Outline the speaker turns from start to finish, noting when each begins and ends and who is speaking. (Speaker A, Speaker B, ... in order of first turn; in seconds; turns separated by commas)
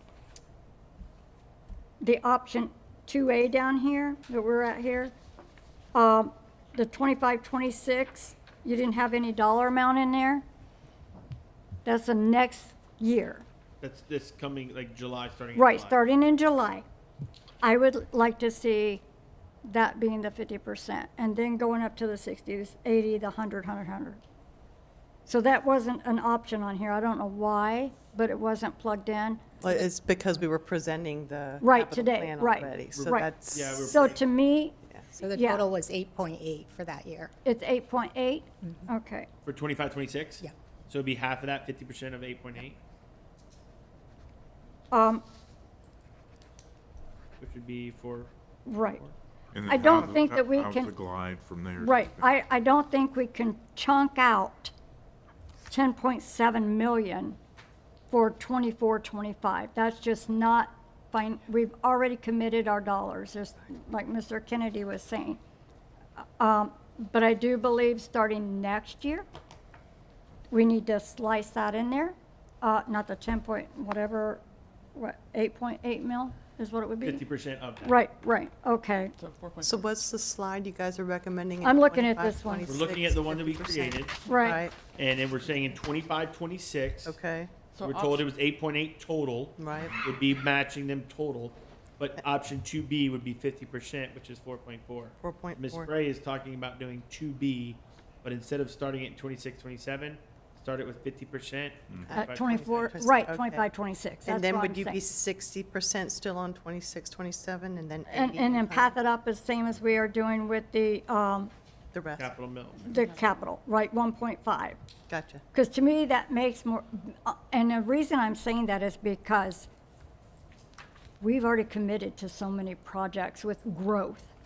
Speaker A: 2.0-5.1, Speaker A: 5.9-10.4, Speaker A: 11.8-13.4, Speaker B: 13.8-16.0, Speaker A: 15.6-16.9, Speaker A: 17.6-19.0, Speaker A: 19.6-24.2, Speaker A: 25.3-29.4, Speaker C: 29.6-34.2, Speaker A: 31.6-33.3, Speaker B: 33.0-34.2, Speaker A: 33.8-34.8, Speaker C: 34.9-35.2, Speaker D: 35.2-37.3, Speaker A: 35.3-35.7, Speaker A: 37.4-39.3, Speaker B: 39.5-42.8, Speaker A: 44.9-45.2, Speaker B: 47.4-49.1, Speaker A: 48.7-49.0, Speaker E: 49.5-52.3, Speaker A: 49.7-50.9, Speaker A: 51.8-54.7, Speaker A: 55.7-57.4, Speaker A: 58.1-65.4, Speaker A: 66.2-69.2, Speaker A: 70.5-74.4, Speaker A: 75.0-77.2, Speaker B: 77.0-78.0, Speaker A: 77.8-79.1, Speaker C: 79.6-84.8, Speaker A: 81.6-82.8, Speaker B: 82.7-87.2, Speaker A: 84.3-84.6, Speaker C: 87.1-87.5, Speaker B: 87.8-103.0, Speaker C: 89.6-90.0, Speaker C: 95.2-95.9, Speaker C: 102.1-103.7, Speaker A: 102.2-105.0, Speaker C: 104.2-108.9, Speaker A: 108.1-111.5, Speaker C: 111.9-112.3, Speaker B: 112.2-112.8, Speaker A: 112.8-114.8, Speaker C: 115.1-115.4, Speaker A: 115.5-119.7, Speaker A: 121.2-124.3